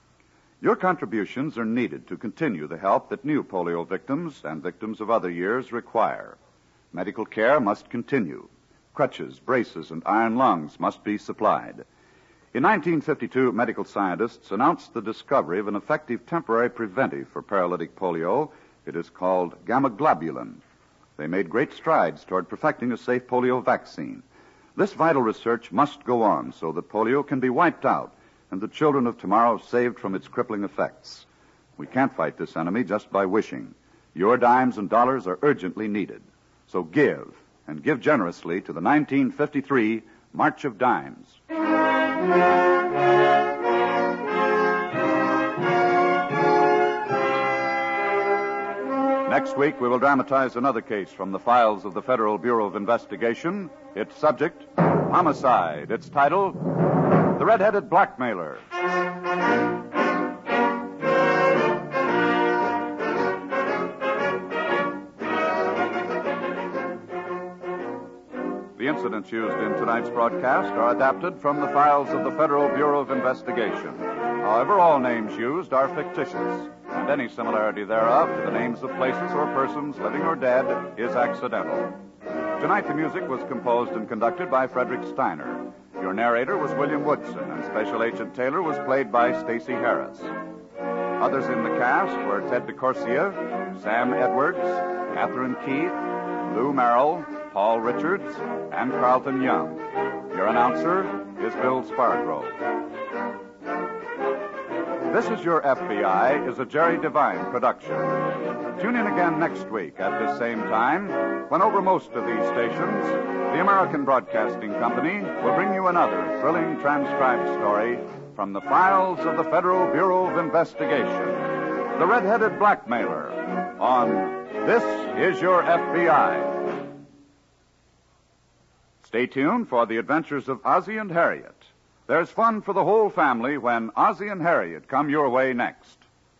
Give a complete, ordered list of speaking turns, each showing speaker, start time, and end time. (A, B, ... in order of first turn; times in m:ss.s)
0:00.6-0:06.4 A
0:06.9-0:11.8 A
0:12.5-0:20.6 A
0:21.2-0:24.2 A
0:24.8-0:31.2 A
0:31.8-0:41.4 A
0:49.2-0:56.7 A
0:57.3-0:58.6 A
1:08.8-1:22.0 A
1:22.6-1:30.3 A
1:31.2-1:42.5 A
1:45.1-2:06.8 A
2:09.0-2:16.0 A